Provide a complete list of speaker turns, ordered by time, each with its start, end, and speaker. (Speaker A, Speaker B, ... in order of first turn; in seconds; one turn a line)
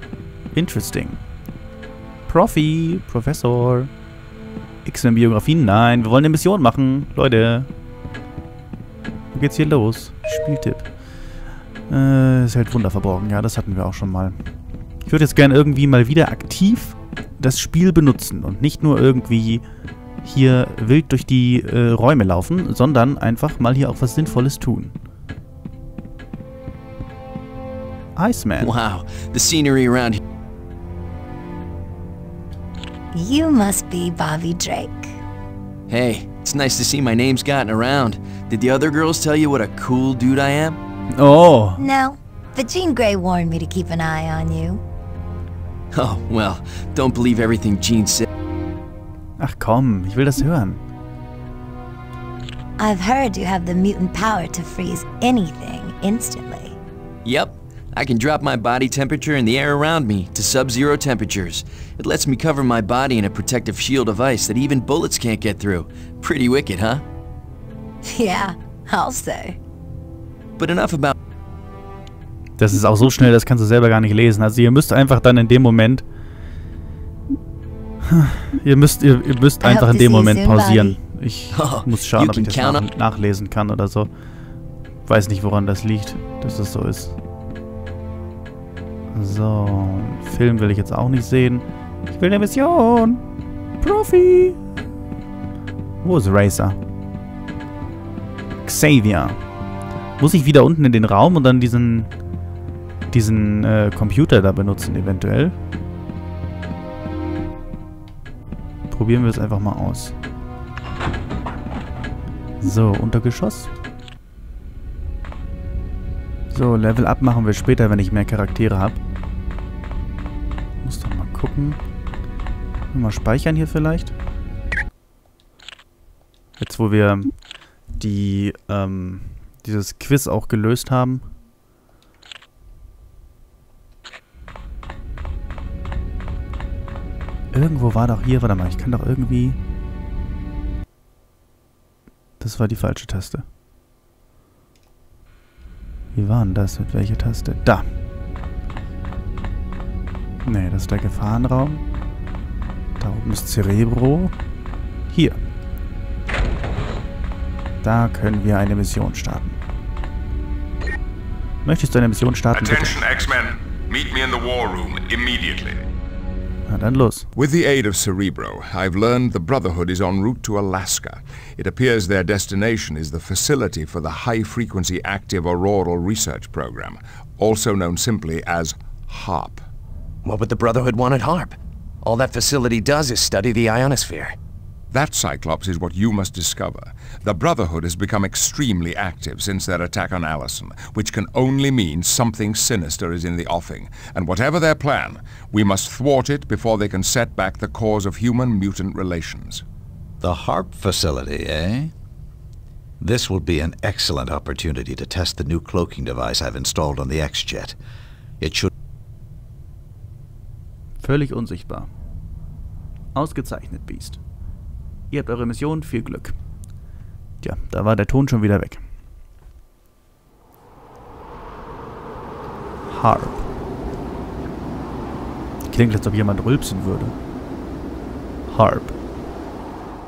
Speaker A: 0.5-1.2
Speaker A: 2.3-3.9
Speaker A: 4.8-7.7
Speaker A: 9.3-10.9
Speaker A: 11.9-14.3
Speaker A: 15.1-19.6
Speaker A: 20.2-24.9
Speaker A: 28.2-28.8
Speaker B: 28.6-30.2
Speaker C: 33.1-35.2
Speaker B: 35.9-40.8
Speaker A: 41.1-41.9
Speaker C: 41.8-44.8
Speaker B: 45.9-48.3
Speaker A: 49.4-50.8
Speaker C: 52.8-56.8
Speaker B: 57.2-67.0
Speaker C: 68.0-69.6
Speaker B: 70.6-71.1
Speaker A: 72.6-76.0
Speaker A: 78.0-84.1
Speaker D: 79.6-80.9
Speaker B: 81.5-82.8
Speaker A: 85.0-87.2
Speaker A: 89.1-93.2
Speaker A: 93.8-94.6
Speaker A: 96.0-96.8
Speaker A: 98.6-99.4
Speaker A: 100.2-102.1
Speaker A: 103.1-105.5
Speaker A: 108.9-110.2
Speaker A: 112.6-113.7
Speaker A: 116.5-119.0
Speaker A: 120.8-121.8
Speaker A: 122.9-124.1
Speaker A: 126.6-127.3
Speaker A: 128.0-131.3
Speaker A: 137.5-139.6
Speaker A: 142.4-143.4
Speaker A: 146.1-147.9
Speaker A: 150.4-151.8
Speaker A: 153.0-154.3
Speaker A: 155.1-155.4
Speaker A: 157.8-159.6
Speaker A: 161.7-163.0
Speaker E: 162.5-165.8
Speaker A: 166.7-167.3
Speaker E: 167.3-179.6
Speaker F: 180.2-184.3
Speaker E: 184.9-199.6
Speaker D: 200.2-201.9
Speaker D: 203.0-207.8
Speaker D: 208.4-208.7
Speaker A: 211.0-211.9
Speaker A: 213.2-214.2
Speaker A: 215.1-216.3
Speaker A: 217.4-218.8
Speaker A: 222.8-223.4
Speaker A: 225.7-227.2
Speaker A: 228.5-228.9